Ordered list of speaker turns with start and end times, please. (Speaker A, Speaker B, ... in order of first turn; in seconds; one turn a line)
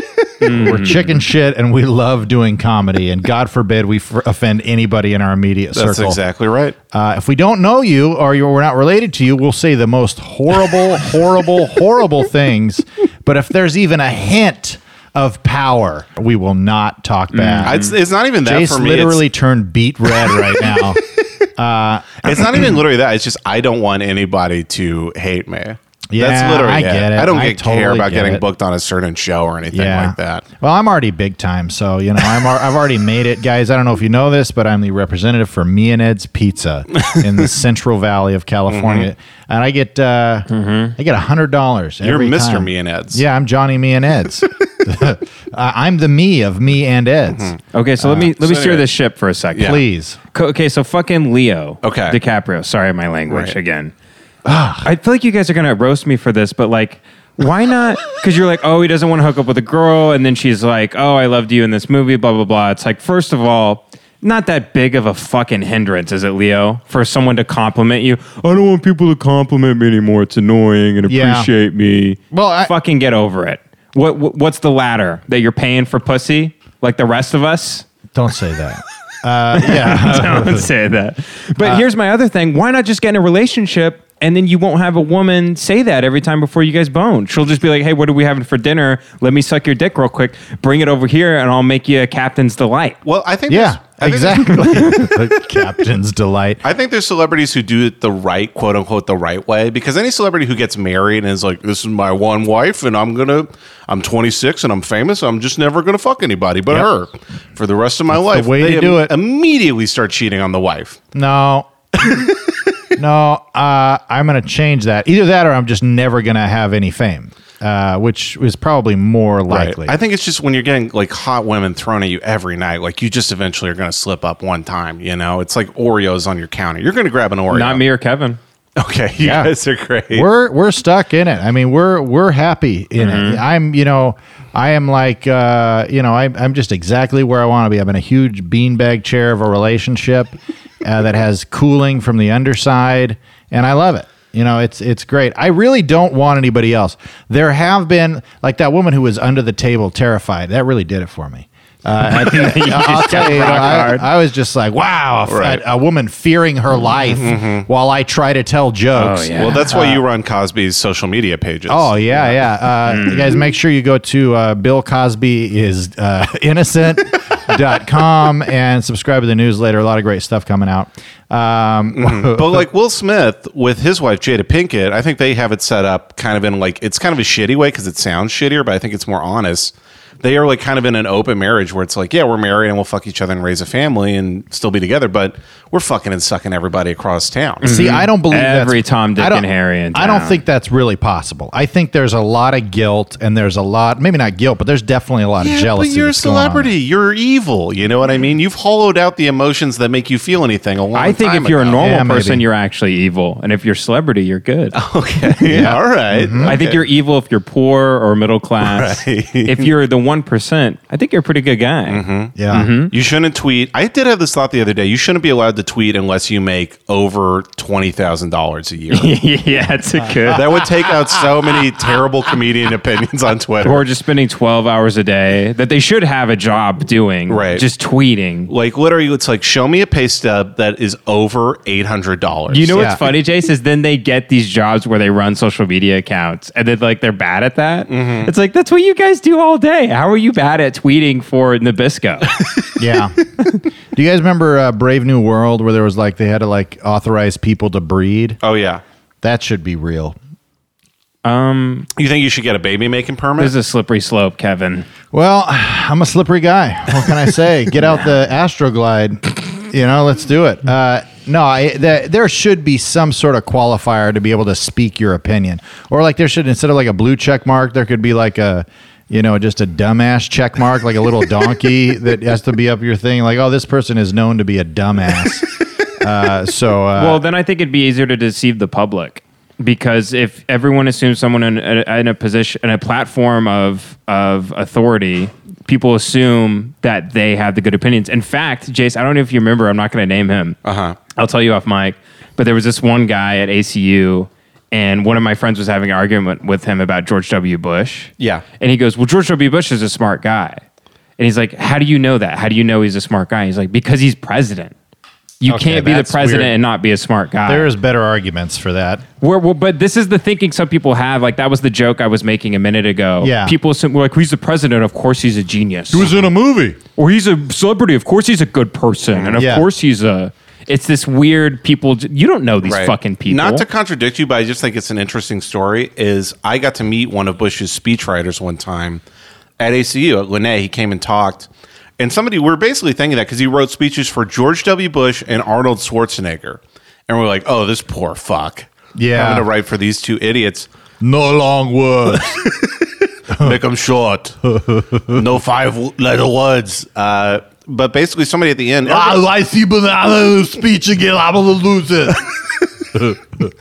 Speaker A: 0.4-1.1
Speaker B: 0.4-6.2
Speaker C: 5.7-6.8
Speaker B: 6.9-17.8
Speaker A: 17.3-17.9
Speaker C: 17.6-19.2
Speaker B: 18.4-21.0
Speaker B: 21.6-22.6
Speaker C: 22.2-30.4
Speaker B: 26.1-28.4
Speaker B: 29.7-48.3
Speaker C: 38.7-39.1
Speaker A: 40.5-40.9
Speaker C: 42.0-43.2
Speaker C: 47.3-47.6
Speaker A: 47.7-49.8
Speaker C: 48.4-48.9
Speaker C: 49.5-49.8
Speaker B: 49.6-50.2
Speaker A: 50.3-53.9
Speaker C: 51.8-52.2
Speaker C: 53.3-53.5
Speaker B: 54.4-54.9
Speaker A: 54.8-77.9
Speaker B: 71.1-71.5
Speaker B: 72.3-72.7
Speaker B: 78.1-80.7
Speaker A: 79.5-93.0
Speaker C: 93.0-94.8
Speaker B: 93.5-96.6
Speaker C: 96.6-111.0
Speaker B: 108.1-109.1
Speaker B: 111.1-112.1
Speaker B: 113.0-119.9
Speaker C: 119.5-127.8
Speaker A: 127.5-128.4
Speaker C: 128.8-130.3
Speaker B: 129.2-129.5
Speaker B: 130.1-160.0
Speaker A: 133.0-133.4
Speaker A: 152.0-154.1
Speaker C: 155.2-155.6
Speaker C: 157.1-157.7
Speaker A: 158.9-159.6
Speaker C: 159.3-162.4
Speaker B: 161.7-172.6
Speaker A: 162.8-163.4
Speaker C: 171.9-187.7
Speaker A: 187.6-190.4
Speaker B: 187.6-196.7
Speaker C: 195.4-201.8
Speaker A: 200.9-204.8
Speaker B: 201.8-202.4
Speaker C: 204.7-206.8
Speaker B: 205.5-206.6
Speaker A: 206.4-212.9
Speaker C: 208.6-209.7
Speaker C: 211.9-212.3
Speaker B: 212.3-212.7
Speaker C: 212.9-219.1
Speaker A: 218.9-220.5
Speaker C: 220.3-223.8
Speaker A: 223.6-228.5
Speaker C: 227.3-227.6
Speaker C: 228.5-232.9
Speaker A: 232.5-242.3
Speaker B: 232.7-233.0
Speaker C: 237.9-238.3
Speaker B: 242.8-243.2
Speaker B: 243.9-248.4
Speaker C: 248.4-248.8
Speaker B: 249.2-250.2
Speaker A: 251.2-251.9
Speaker C: 251.9-253.5
Speaker A: 253.4-254.8
Speaker B: 255.1-275.5
Speaker B: 276.0-277.2
Speaker A: 276.9-290.6
Speaker C: 290.6-291.0
Speaker A: 291.1-300.6
Speaker C: 298.2-298.4
Speaker A: 301.2-304.7
Speaker A: 305.4-307.7
Speaker B: 305.5-306.5
Speaker B: 307.5-309.0
Speaker A: 309.2-316.1
Speaker B: 313.2-313.6
Speaker B: 315.9-316.8
Speaker A: 316.9-323.6
Speaker B: 319.3-319.6
Speaker C: 322.6-329.0
Speaker C: 329.6-340.7
Speaker B: 338.9-339.5
Speaker B: 341.0-342.4
Speaker B: 343.3-343.6
Speaker C: 343.4-344.4
Speaker B: 344.4-345.2
Speaker C: 345.1-349.2
Speaker B: 348.8-353.5